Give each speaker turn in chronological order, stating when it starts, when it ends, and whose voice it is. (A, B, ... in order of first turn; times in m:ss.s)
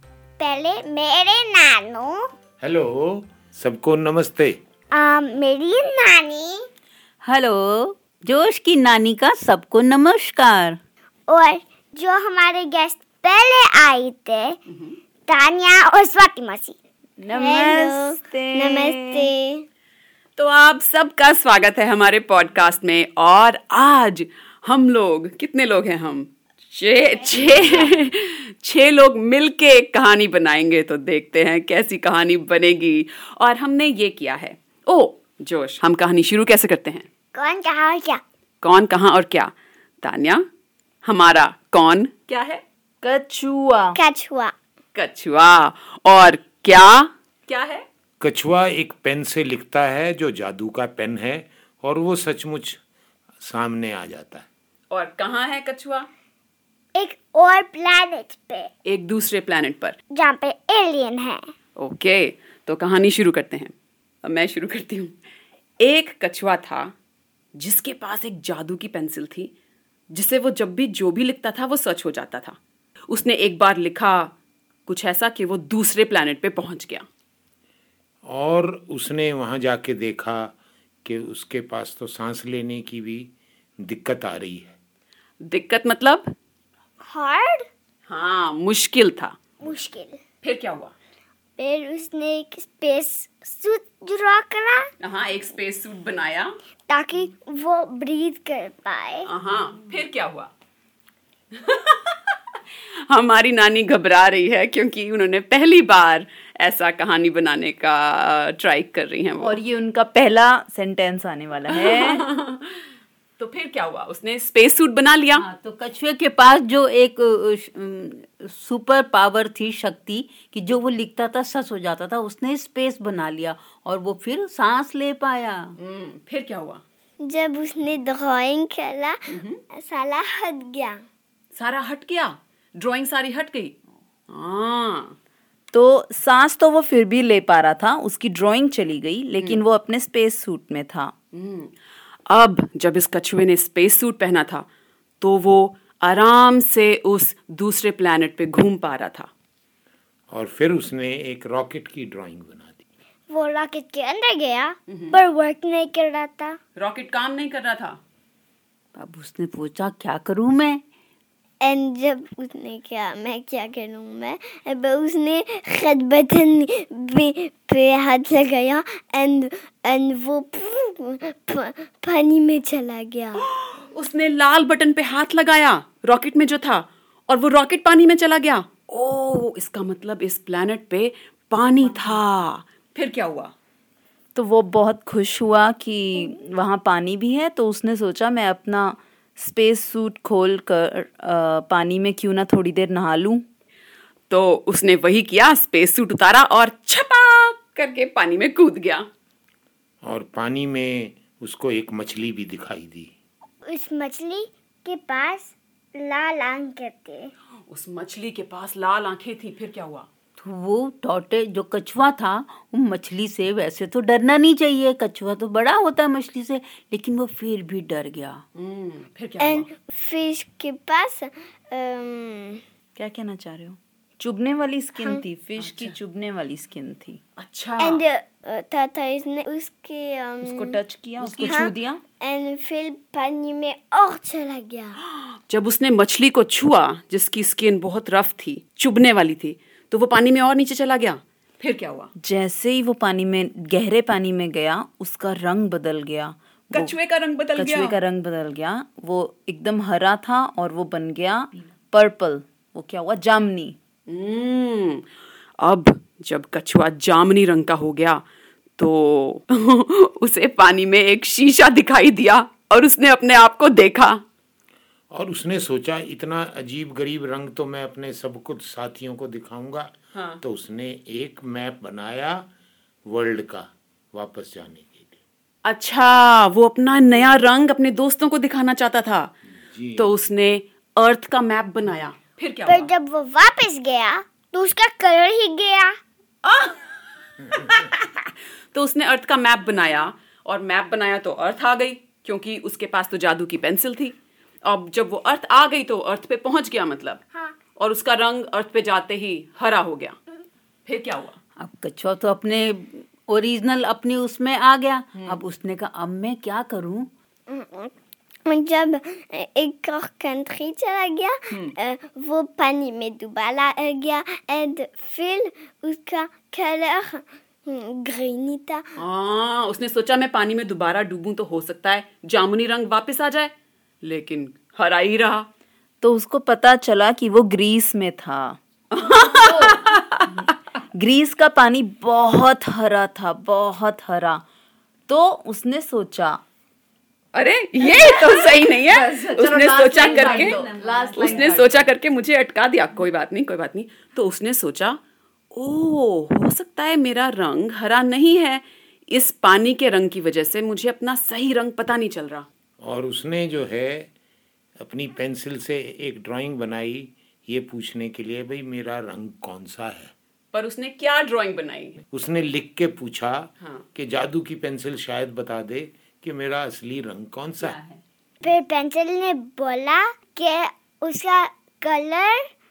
0:00.4-0:02.3 A
0:02.6-0:04.6 B
0:04.9-0:06.7 A
0:07.2-0:10.8 C
0:11.3-0:14.6 A
0:15.3-0:16.8 A
0:17.2-0:19.3 D
0:17.3-0:19.6 A
0:20.4-0:37.1 E
0:27.4-0:27.8 A
0:37.3-0:38.2 A
0:38.6-0:40.4 E
0:41.0-0:42.6 E
0:43.0-0:44.0 D
0:44.0-0:44.5 A
0:45.0-0:47.8 E
0:48.2-0:52.8 B
0:53.4-0:54.5 B
0:54.9-0:56.1 E
0:57.0-0:58.7 A
0:58.9-1:00.0 E
1:00.1-1:01.4 A
1:01.8-1:03.7 E
1:04.2-1:05.2 E
1:05.8-1:06.9 E
1:07.6-1:09.5 E
1:10.1-1:12.6 E
1:13.1-1:14.3 E
1:14.9-1:17.0 E
1:18.3-1:23.3 B
1:23.8-1:24.8 B
1:25.4-1:26.3 E
1:27.0-1:27.7 A
1:28.1-1:29.3 E
1:29.6-1:30.2 A
1:30.4-1:30.9 E
1:31.6-1:34.9 A
1:35.0-1:36.6 E
1:36.9-1:39.3 A
1:39.2-1:40.5 E
1:41.6-1:42.3 E
1:43.1-1:49.6 E
1:49.4-1:52.2 D
1:51.7-1:52.8 E
1:53.4-1:55.4 E
1:55.4-2:05.7 C
2:05.8-2:06.8 E
2:07.2-2:09.2 A
2:09.3-2:09.6 E
2:09.7-2:11.0 A
2:11.6-2:13.8 E
2:14.3-2:15.2 E
2:15.7-2:21.1 D
2:21.3-2:21.7 E
2:22.3-2:24.7 E
2:25.2-2:29.3 E
2:30.3-2:32.8 B
2:33.3-2:36.6 A
2:34.9-2:35.2 E
2:36.8-2:38.0 E
2:38.9-2:40.8 C
2:41.6-2:53.4 A
2:53.4-3:03.5 E
3:04.3-3:13.4 D
3:14.3-3:19.1 E
3:20.0-3:23.1 B
3:23.7-3:27.3 A
3:27.7-3:30.1 E
3:30.4-3:38.4 C
3:38.6-3:39.7 E
3:39.4-3:42.6 A
3:43.0-3:47.2 D
3:45.6-3:45.9 E
3:47.4-3:48.0 E
3:47.8-3:50.8 A
3:50.4-3:52.0 D
3:51.2-3:51.6 C
3:51.4-3:55.0 A
3:55.5-4:02.1 E
4:02.2-4:06.9 D
4:06.7-4:08.0 E
4:07.6-4:13.8 D
4:14.1-4:15.0 E
4:15.6-4:18.2 E
4:18.8-4:24.2 E
4:25.1-4:32.5 B
4:33.1-4:35.2 B
4:35.6-4:39.3 E
4:39.6-4:40.1 B
4:40.0-4:42.9 E
4:42.7-4:46.0 A
4:46.4-4:46.9 E
4:47.4-4:57.2 E
4:57.8-5:00.2 E
5:00.9-5:01.4 E
5:01.6-5:07.1 C
5:05.2-5:05.4 E
5:07.5-5:07.9 A
5:08.4-5:18.9 A
5:19.0-5:25.5 E
5:26.0-5:28.6 D
5:28.9-5:30.5 E
5:29.4-5:29.8 D
5:30.9-5:34.4 D
5:35.1-5:36.4 D
5:37.3-5:40.6 E
5:37.8-5:41.9 D
5:40.0-5:41.6 C
5:41.1-5:45.0 E
5:45.5-5:52.5 E
5:52.8-5:54.1 B
5:54.8-6:00.1 B
6:00.5-6:02.0 E
6:02.1-6:07.8 B
6:07.6-6:08.0 C
6:08.4-6:12.5 A